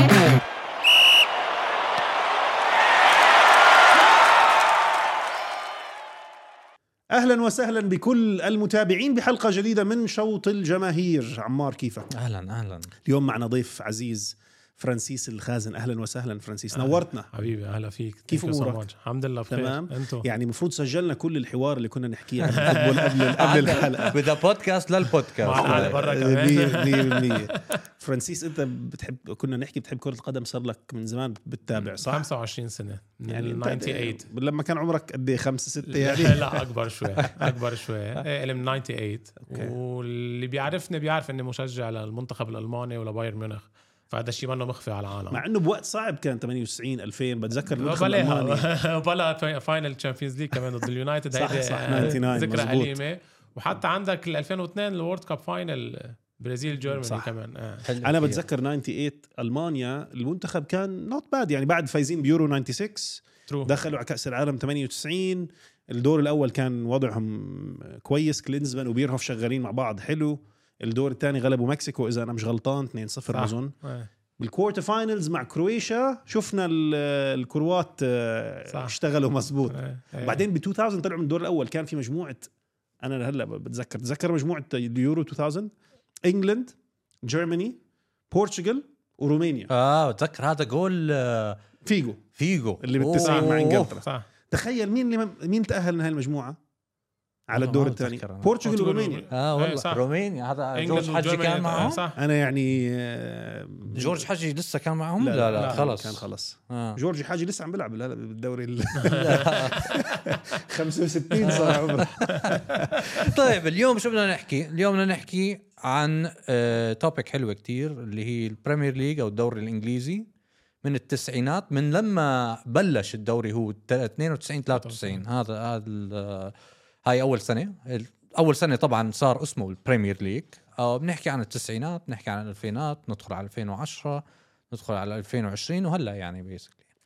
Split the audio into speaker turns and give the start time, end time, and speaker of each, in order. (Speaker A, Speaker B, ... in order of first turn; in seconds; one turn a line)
Speaker A: 7.1-12.1
Speaker B: 12.1-12.9
Speaker A: 13.0-17.3
Speaker C: 16.7-20.2
Speaker A: 18.3-18.8
Speaker A: 19.5-24.2
Speaker C: 22.4-24.1
Speaker B: 23.4-26.0
Speaker C: 25.4-27.6
Speaker A: 25.4-32.3
Speaker C: 31.8-34.3
Speaker A: 33.3-36.6
Speaker C: 35.9-45.4
Speaker A: 39.5-39.7
Speaker A: 45.3-48.6
Speaker C: 47.7-57.9
Speaker A: 51.3-53.0
Speaker A: 56.9-57.3
Speaker B: 57.9-58.4
Speaker A: 58.0-73.7
Speaker C: 63.5-63.7
Speaker C: 73.3-74.1
Speaker A: 74.4-82.5
Speaker C: 78.7-79.0
Speaker C: 79.7-80.4
Speaker A: 83.0-85.7
Speaker A: 86.2-87.8
Speaker A: 88.3-89.7
Speaker B: 89.7-91.6
Speaker A: 91.8-92.2
Speaker B: 92.3-94.0
Speaker A: 92.8-96.6
Speaker C: 94.0-94.3
Speaker A: 97.5-99.3
Speaker B: 97.5-98.5
Speaker C: 98.6-100.0
Speaker B: 99.3-102.0
Speaker C: 100.7-102.2
Speaker A: 102.2-104.2
Speaker B: 103.9-107.0
Speaker A: 105.2-113.5
Speaker C: 105.5-105.8
Speaker C: 109.0-110.4
Speaker B: 109.1-109.9
Speaker B: 111.4-120.3
Speaker C: 111.4-112.6
Speaker B: 120.8-136.8
Speaker C: 124.7-125.2